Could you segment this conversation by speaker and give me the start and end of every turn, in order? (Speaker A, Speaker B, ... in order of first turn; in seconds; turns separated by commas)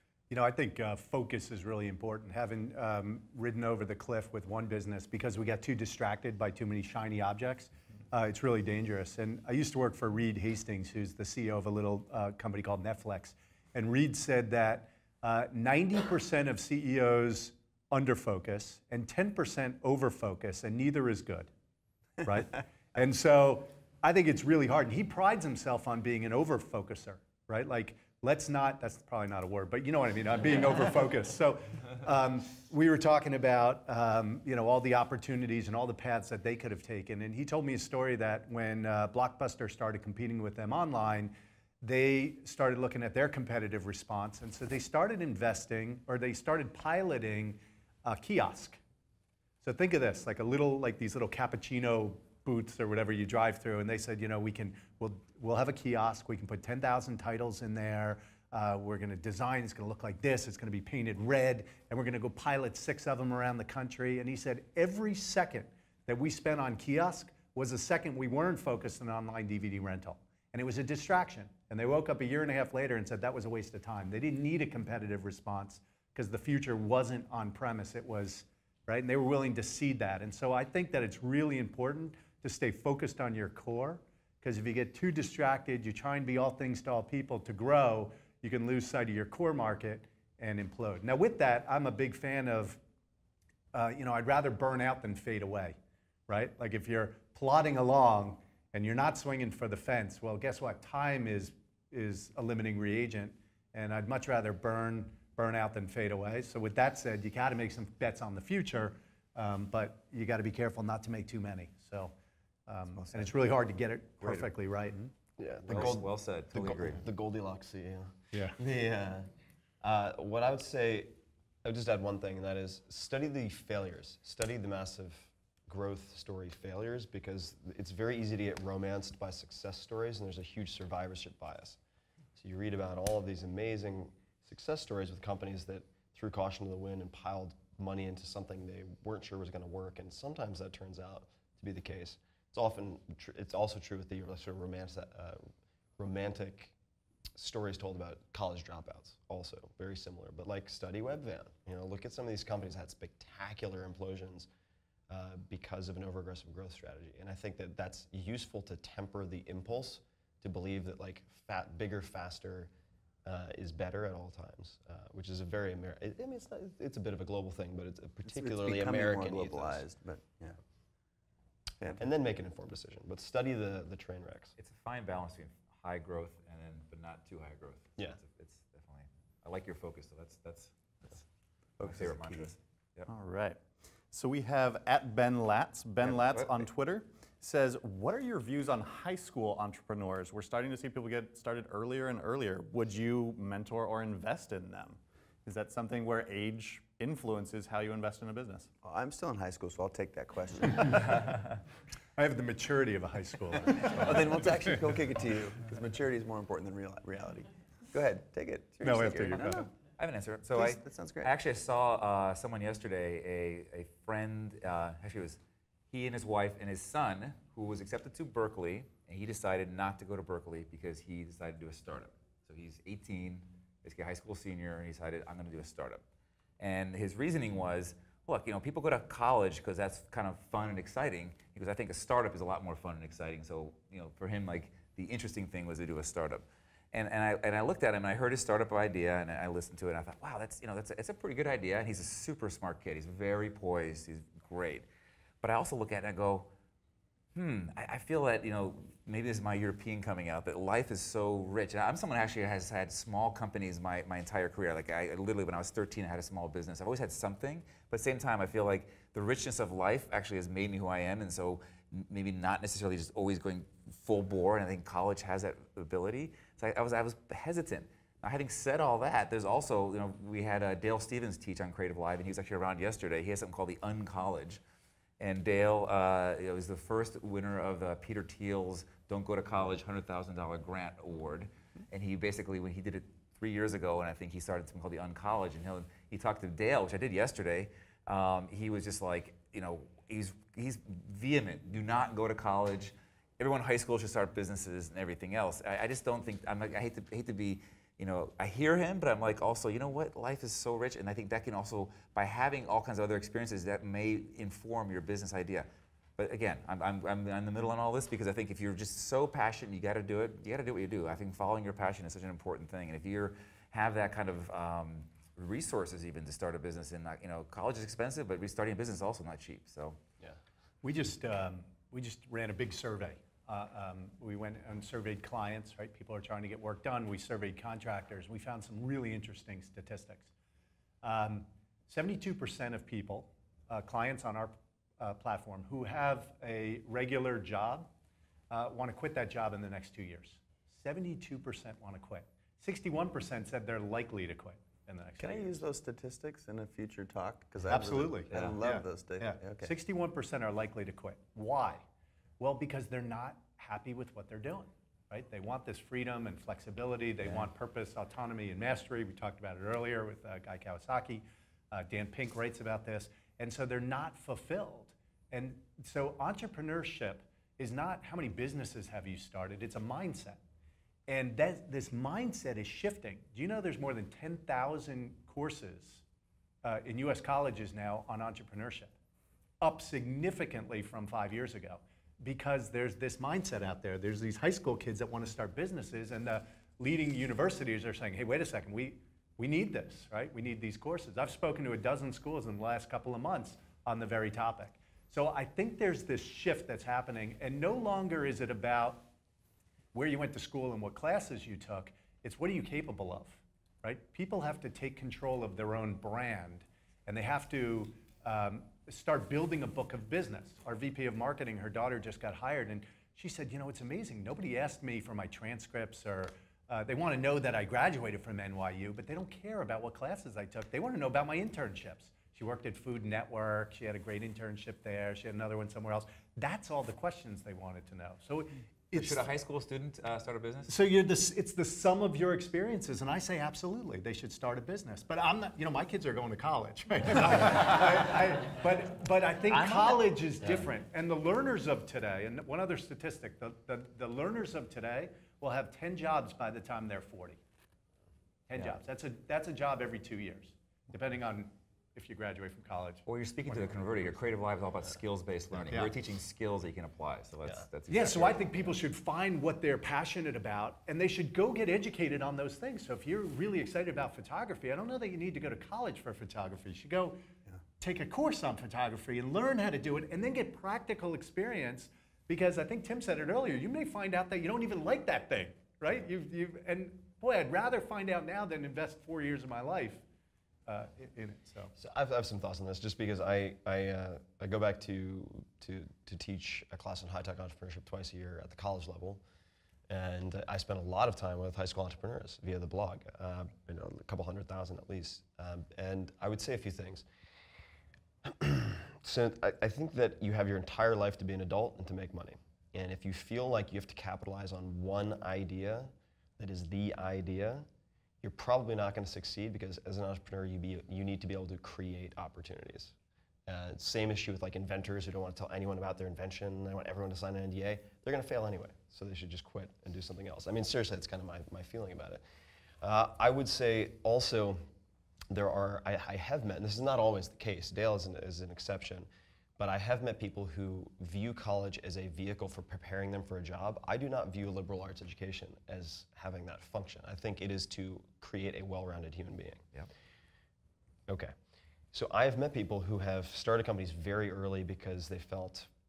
Speaker A: 0.3-21.5, Speaker A: 22.2-48.8, Speaker A: 49.6-92.8, Speaker A: 93.7-95.8, Speaker A: 96.3-112.1, Speaker A: 112.7-115.1, Speaker B: 113.0-113.3, Speaker B: 114.2-114.5, Speaker C: 115.4-119.3, Speaker B: 115.7-117.0, Speaker C: 119.8-131.8, Speaker C: 132.3-145.4, Speaker C: 146.0-146.7, Speaker C: 147.3-154.5, Speaker C: 155.1-162.7, Speaker C: 163.2-169.8, Speaker D: 168.2-170.6, Speaker C: 171.9-174.5, Speaker B: 174.6-181.2, Speaker D: 181.8-182.5, Speaker B: 181.8-183.1, Speaker E: 183.1-198.7, Speaker B: 186.0-186.7, Speaker D: 198.8-201.2, Speaker A: 200.7-201.5, Speaker A: 202.2-204.8, Speaker D: 204.0-209.7, Speaker A: 208.8-209.7, Speaker B: 210.0-215.4, Speaker D: 210.5-211.3, Speaker B: 215.9-226.0, Speaker B: 226.6-244.9, Speaker B: 245.4-246.5, Speaker B: 247.3-274.6, Speaker B: 275.2-320.0, Speaker A: 320.8-330.3, Speaker A: 331.0-337.9, Speaker A: 338.5-345.6, Speaker D: 345.2-349.7, Speaker A: 347.6-351.8, Speaker A: 352.4-370.4, Speaker A: 371.1-376.0, Speaker A: 376.6-378.9, Speaker A: 379.6-399.1, Speaker A: 399.9-429.3, Speaker B: 428.9-430.7, Speaker A: 430.7-447.4, Speaker B: 439.5-440.0, Speaker A: 448.5-453.7, Speaker B: 453.1-458.8, Speaker A: 457.9-467.2, Speaker A: 467.8-480.0, Speaker A: 480.7-481.7, Speaker C: 481.8-489.2, Speaker C: 489.9-497.0, Speaker C: 498.2-507.7, Speaker C: 508.2-512.9, Speaker C: 513.5-522.2, Speaker C: 522.8-524.6, Speaker C: 525.3-539.6, Speaker C: 541.9-545.7